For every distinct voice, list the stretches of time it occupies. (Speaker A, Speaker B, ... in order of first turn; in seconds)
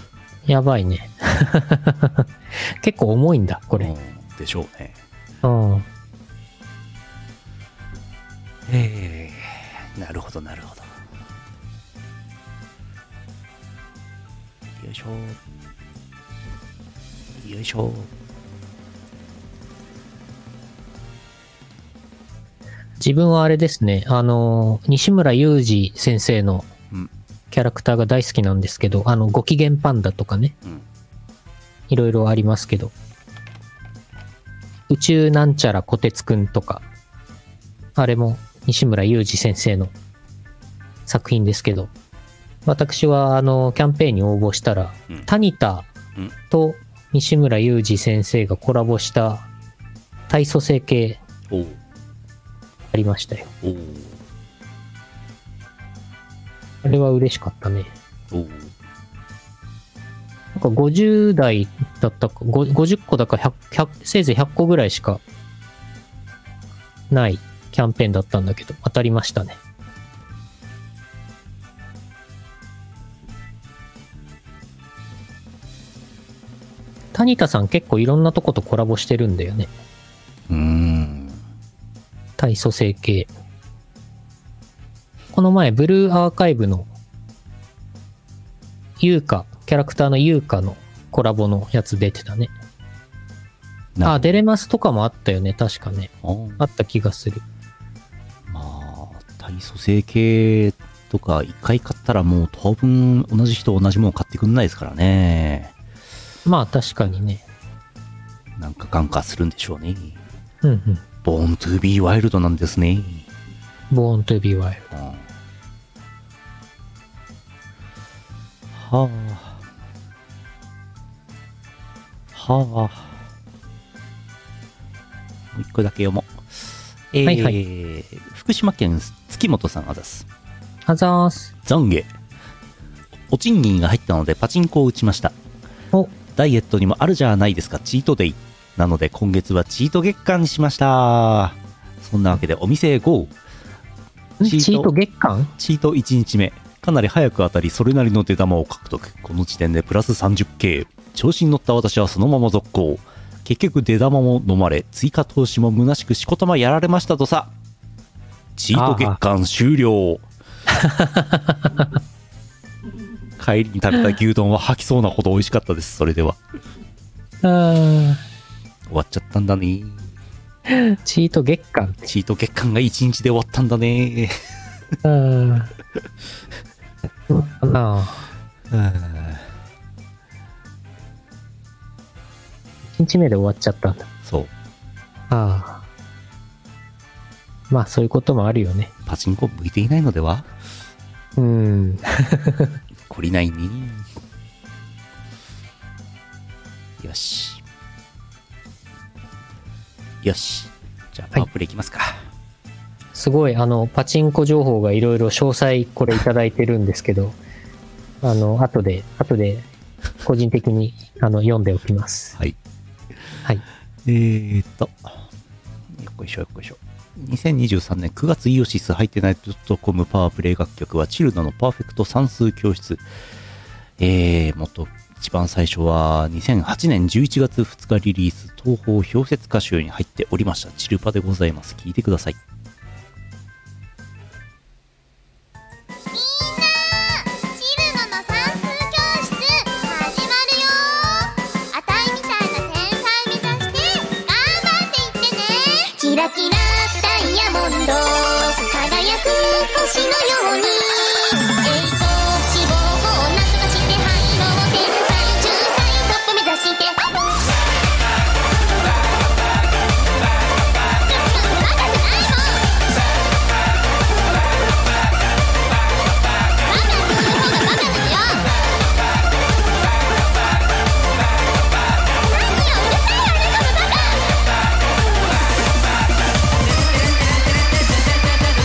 Speaker A: 0.5-3.9, 5.4-5.8, 23.0-26.7, 27.5-30.5, 31.9-32.9, 34.9-36.8, 38.0-39.9, 41.0-41.9, 42.6-45.9, 46.5-49.5, 50.3-51.2, 52.9-53.5, 56.8-57.9, 60.5-65.2, 67.1-69.6, 77.1-79.7, 82.4-83.3, 85.3-86.9, 89.0-92.5, 94.0-97.4, 106.4-107.4, 110.6-111.0, 113.9-114.9, 127.2-127.6, 130.8-131.5, 144.4-145.5, 158.7-159.2, 160.7-161.9, 167.4-168.2, 170.7-172.1, 175.0-175.7, 177.3-178.2, 182.9-184.1, 185.3-185.8, 187.7-188.9, 191.3-192.8, 203.1-207.4, 208.2-209.7, 210.2-212.3
Speaker B: 3.8-4.9, 8.7-10.9, 14.8-15.4, 17.4-18.1, 51.5-51.8, 53.6-54.2, 58.3-58.7, 80.5-81.4, 94.0-94.4, 96.2-96.6, 98.5-105.7, 108.6-110.2, 111.2-113.3, 114.9-115.2, 118.7-119.6, 122.3-123.2, 125.5-130.2, 131.6-132.1, 133.3-135.3, 136.3-143.3, 144.4-144.9, 145.6-157.5, 158.6-160.2, 163.4-166.4, 168.9-170.1, 172.1-174.4, 178.7-179.5, 184.2-184.5, 189.1-190.5, 193.1-194.1, 197.0-197.6, 200.2-202.2, 214.0-215.2, 215.9-223.0, 224.0-232.4
Speaker C: 236.1-257.4, 261.0-262.8, 266.6-268.5, 272.3-274.6